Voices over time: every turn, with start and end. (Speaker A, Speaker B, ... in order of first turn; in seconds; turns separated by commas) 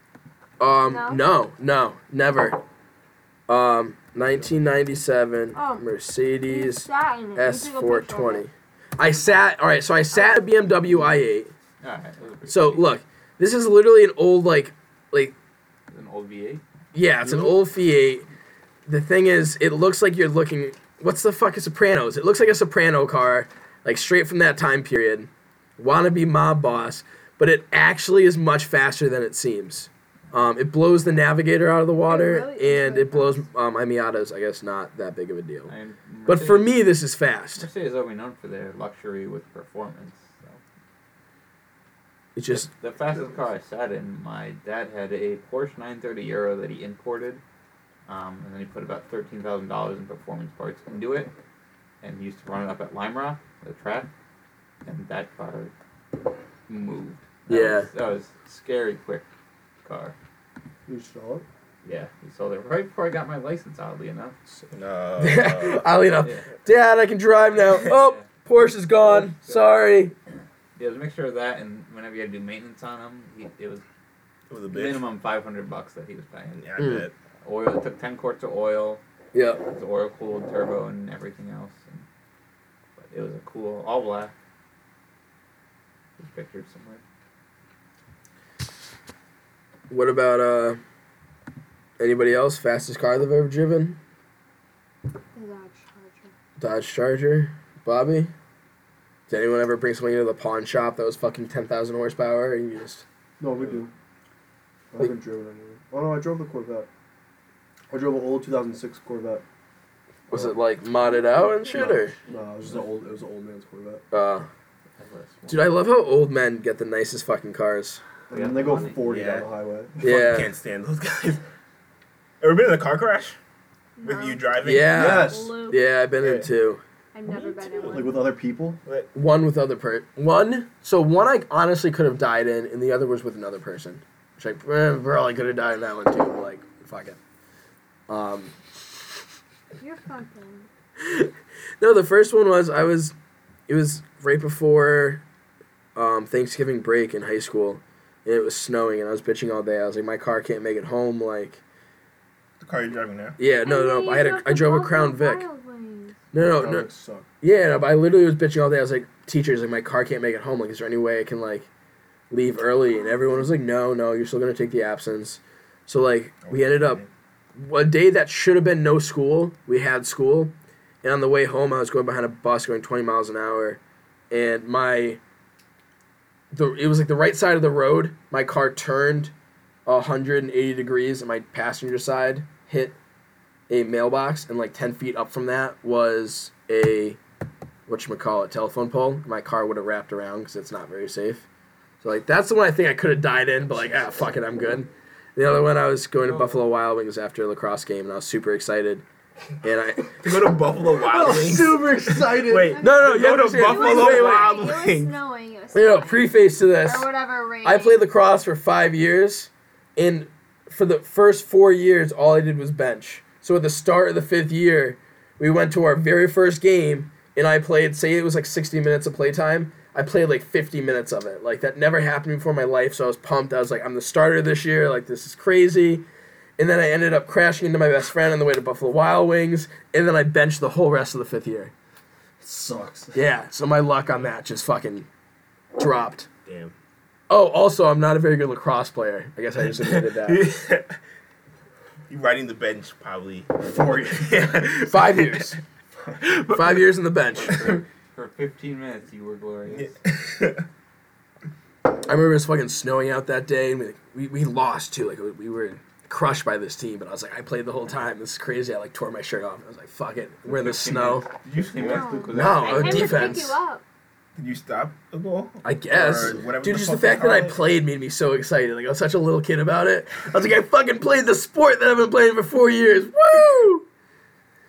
Speaker A: 0.6-2.6, Speaker B: 0.8-1.2, Speaker A: 3.5-11.5, Speaker B: 5.5-5.9, Speaker B: 6.4-8.5, Speaker C: 11.8-12.9, Speaker A: 12.5-15.3, Speaker C: 15.9-16.6, Speaker A: 16.9-18.3, Speaker A: 18.9-35.7, Speaker B: 32.0-33.5, Speaker C: 35.7-36.9, Speaker A: 36.3-37.7, Speaker C: 37.6-40.6, Speaker A: 42.4-42.7, Speaker C: 42.5-47.4, Speaker C: 48.1-51.3, Speaker C: 52.0-54.1, Speaker C: 54.8-55.7, Speaker C: 56.7-59.3, Speaker A: 57.5-57.9, Speaker C: 59.9-60.1, Speaker D: 60.9-61.5, Speaker C: 61.8-64.4, Speaker E: 64.7-65.9, Speaker A: 65.2-70.1, Speaker C: 66.2-66.5, Speaker C: 67.8-68.3, Speaker C: 69.0-69.7, Speaker C: 70.8-73.8, Speaker E: 74.5-75.0, Speaker C: 74.7-76.6, Speaker E: 76.6-77.1, Speaker A: 76.8-77.1, Speaker C: 77.4-79.0, Speaker A: 79.3-79.7, Speaker C: 79.6-82.0, Speaker C: 83.0-84.3, Speaker C: 86.2-87.0, Speaker A: 89.9-90.8, Speaker A: 92.0-94.0, Speaker B: 95.3-96.3, Speaker A: 96.6-98.3, Speaker A: 99.3-103.0, Speaker D: 103.4-103.9, Speaker D: 104.9-106.9, Speaker D: 107.9-109.4, Speaker D: 110.3-110.6, Speaker A: 110.3-112.2, Speaker B: 111.2-111.7, Speaker D: 111.8-114.0, Speaker A: 114.1-114.5, Speaker C: 115.0-115.7, Speaker A: 115.5-118.0, Speaker D: 118.3-120.0, Speaker C: 118.3-119.0, Speaker E: 119.0-119.5, Speaker E: 120.0-121.4, Speaker A: 120.0-120.5, Speaker E: 122.4-123.4, Speaker B: 124.0-125.9, Speaker E: 124.0-125.3, Speaker A: 124.6-126.8, Speaker D: 124.9-125.6, Speaker E: 126.2-126.5, Speaker B: 127.1-128.3, Speaker E: 127.3-128.1, Speaker D: 127.9-128.8, Speaker E: 128.8-129.1, Speaker A: 129.2-137.2, Speaker A: 138.1-138.6, Speaker B: 139.8-140.7, Speaker A: 141.0-143.1, Speaker A: 143.7-145.2, Speaker A: 145.9-151.6, Speaker E: 152.6-153.4, Speaker A: 153.4-155.4, Speaker B: 153.6-156.2, Speaker A: 156.3-156.9, Speaker D: 156.4-157.3, Speaker A: 157.4-161.7, Speaker A: 162.3-167.0, Speaker B: 162.8-163.5, Speaker E: 166.5-167.1, Speaker A: 167.6-173.8, Speaker A: 174.3-175.2, Speaker A: 176.5-179.3, Speaker A: 179.9-182.9, Speaker A: 183.7-187.2, Speaker A: 187.9-191.4, Speaker A: 192.0-199.0, Speaker C: 196.2-196.6, Speaker A: 199.6-200.5, Speaker E: 200.2-205.2, Speaker D: 201.0-202.8, Speaker B: 202.7-208.1, Speaker A: 202.8-204.6, Speaker A: 205.7-207.1, Speaker A: 207.6-226.1, Speaker A: 226.6-231.7, Speaker D: 232.4-233.2, Speaker A: 233.2-235.1, Speaker A: 235.8-236.3, Speaker E: 236.5-236.7, Speaker A: 237.3-240.4, Speaker E: 239.7-241.0, Speaker E: 242.1-245.6, Speaker D: 243.6-244.6, Speaker A: 244.9-245.6, Speaker E: 246.2-246.8, Speaker A: 246.5-247.8, Speaker C: 247.3-249.9, Speaker E: 249.7-250.7, Speaker A: 252.1-261.2, Speaker C: 260.4-263.4, Speaker E: 261.4-262.2, Speaker B: 261.8-263.8, Speaker A: 262.3-263.6, Speaker E: 264.4-267.6, Speaker A: 265.6-273.9